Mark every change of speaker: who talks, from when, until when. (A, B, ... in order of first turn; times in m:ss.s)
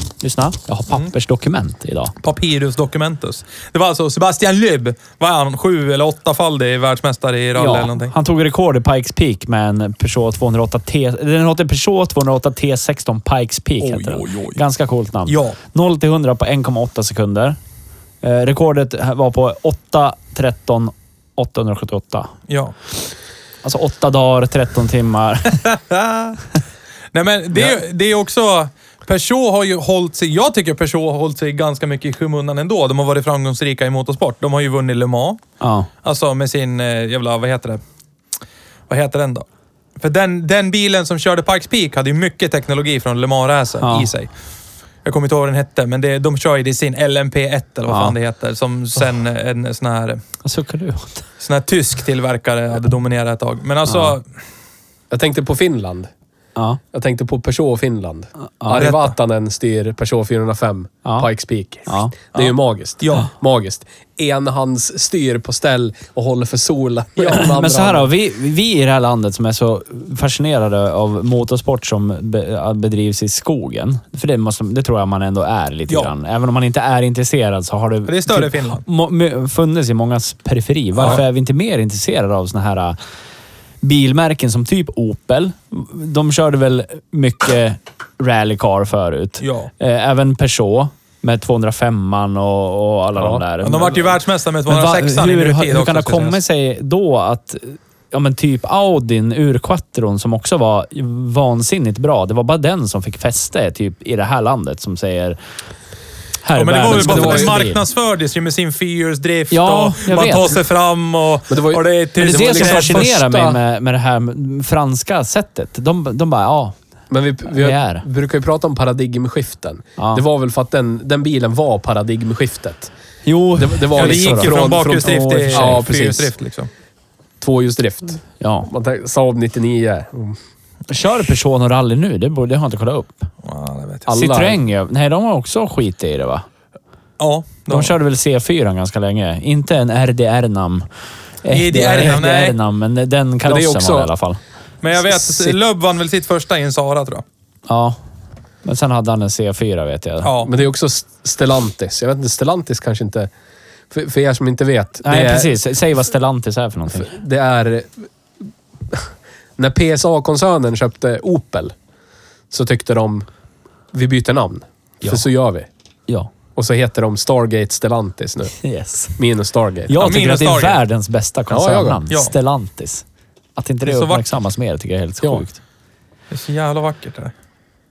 0:00.2-0:02.1 A
0:02.2-0:08.1 B
0:07.6-0:17.6 A
0:13.8-0:14.6 B
0:15.3-0:15.6 B
0:18.2-0:22.3 A
0:22.5-0:22.7 B
0:23.6-0:25.7 A
0:25.6-0:26.4 B
0:27.1-0:35.4 B
0:35.6-0:35.9 A
0:36.0-0:37.8 B
0:38.9-0:39.4 B
0:40.0-0:44.3 B
0:43.8-0:44.1 A
0:45.0-0:50.2 B
0:47.9-0:48.1 A
0:50.4-0:51.2 A
0:51.4-0:54.2 B
0:53.8-0:54.1 A
0:55.1-0:56.1 C
0:56.6-0:56.8 A
0:56.9-1:08.1 C
0:58.4-0:58.9 A
0:58.7-0:59.1 B
1:01.9-1:02.1 A
1:02.3-1:03.3 B
1:07.2-1:07.5 B
1:07.3-1:23.0 A
1:18.0-1:18.8 B
1:21.0-1:21.2 B
1:23.8-1:45.4 A
1:29.4-1:29.7 B
1:33.2-1:33.4 C
1:33.6-1:36.4 B
1:46.4-1:47.8 A
1:46.5-1:53.0 B
1:46.9-1:47.6 C
1:49.5-1:50.6 A
1:51.5-1:53.6 C
1:52.2-1:56.8 A
1:57.1-2:02.9 C
1:57.5-1:58.0 A
2:00.0-2:00.2 A
2:03.2-2:06.2 A
2:03.6-2:06.3 C
2:03.9-2:06.7 B
2:07.4-2:10.4 C
2:08.4-2:08.7 A
2:10.9-2:13.3 A
2:13.4-2:14.1 B
2:14.0-2:14.6 C
2:14.1-2:16.4 A
2:17.2-2:17.9 B
2:17.7-2:20.8 A
2:21.4-2:24.4 A
2:21.5-2:22.5 B
2:23.4-2:24.1 C
2:24.8-2:27.2 B
2:25.1-2:25.5 C
2:27.7-2:28.0 A
2:28.6-2:30.3 A
2:30.2-2:30.5 B
2:30.4-2:33.3 C
2:33.9-2:35.5 C
2:35.0-2:37.2 A
2:37.0-2:38.1 C
2:38.9-2:41.7 C
2:42.5-2:43.3 C
2:43.9-2:45.7 C
2:46.6-2:48.6 C
2:48.6-2:49.2 A
2:49.2-2:50.2 C
2:49.9-2:53.0 A
2:50.0-2:50.8 B
2:51.5-2:52.0 C
2:53.6-2:55.6 A
2:53.8-2:54.2 B
2:56.3-2:57.3 B